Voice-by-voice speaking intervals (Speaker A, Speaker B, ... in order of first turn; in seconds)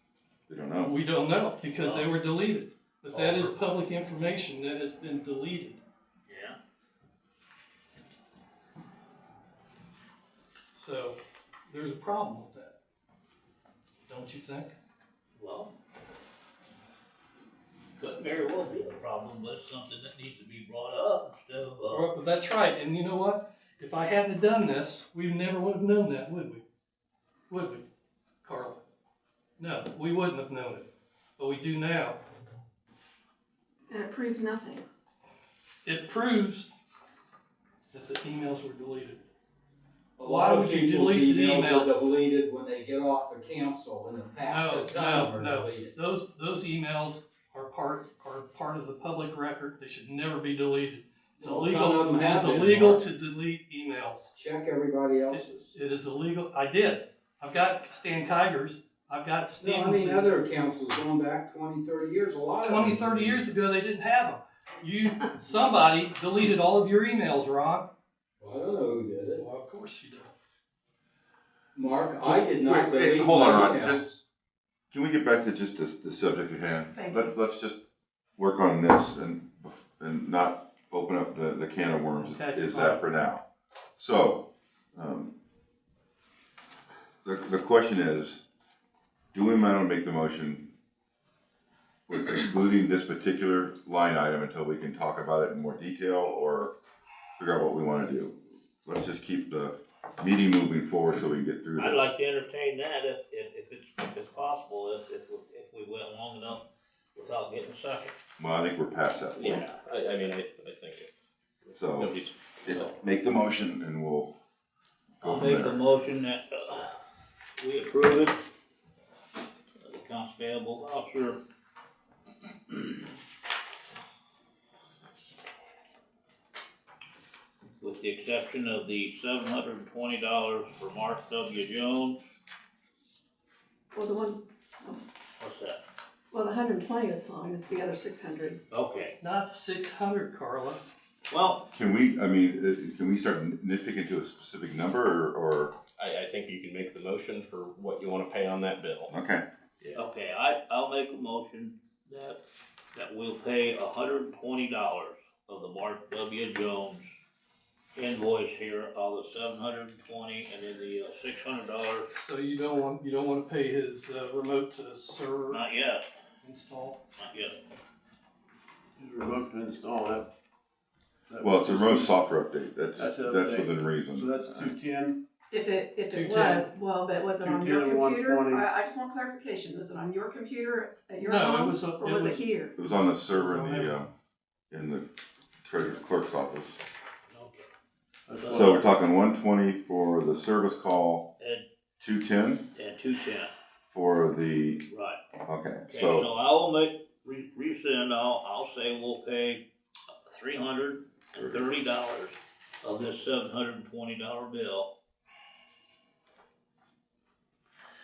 Speaker A: 0.5-1.0, 72.2-74.1, 74.9-77.8, 78.4-83.4, 84.0-85.3, 87.2-88.4, 89.3-90.7, 92.1-96.7, 97.4-102.1, 108.4-109.6, 111.7-114.3, 115.2-115.8, 141.7-145.7, 149.1-149.4, 171.4-174.7, 182.8-184.1, 184.7-185.1, 185.6-186.8, 188.5-191.3, 192.0-192.7, 193.9-194.8, 195.4-196.3
Speaker B: 0.8-5.8, 10.7-12.8, 14.1-14.7, 21.9-26.6, 27.5-27.9, 28.4-28.8, 29.6-32.2, 35.8-36.7, 37.9-39.2, 40.2-42.0, 44.4-54.3, 55.3-60.4, 62.6-67.9, 69.4-70.3, 82.1-83.0, 139.2-140.8, 162.1-165.7, 166.4-167.0, 176.1-176.7, 181.2-184.0
Speaker C: 1.7-2.1, 3.1-3.5, 6.3-6.6, 15.3-15.7, 17.9-22.0, 101.8-108.1, 115.2-116.9, 117.6-118.4, 119.8-121.4, 127.8-132.2, 135.4-135.8, 138.7-139.2, 141.3-141.7, 149.9-152.4, 152.9-157.1, 157.9-162.1, 165.5-166.1, 167.2-167.6, 187.3-187.7, 188.4-188.8, 191.4-191.6, 192.7-193.5, 194.9-195.2, 195.9-199.6, 200.2-204.9
Speaker D: 33.9-34.8, 76.9-77.3, 133.9-135.0, 136.3-138.6, 175.5-182.8
Speaker E: 40.2-46.0, 51.4-53.1, 54.3-55.7, 59.6-63.4, 68.4-69.4, 71.7-74.2
Speaker F: 109.3-111.1, 111.6-113.0, 146.0-149.1
Speaker G: 169.0-170.3, 171.3-172.2, 172.9-175.2, 177.4-178.7, 188.3-188.9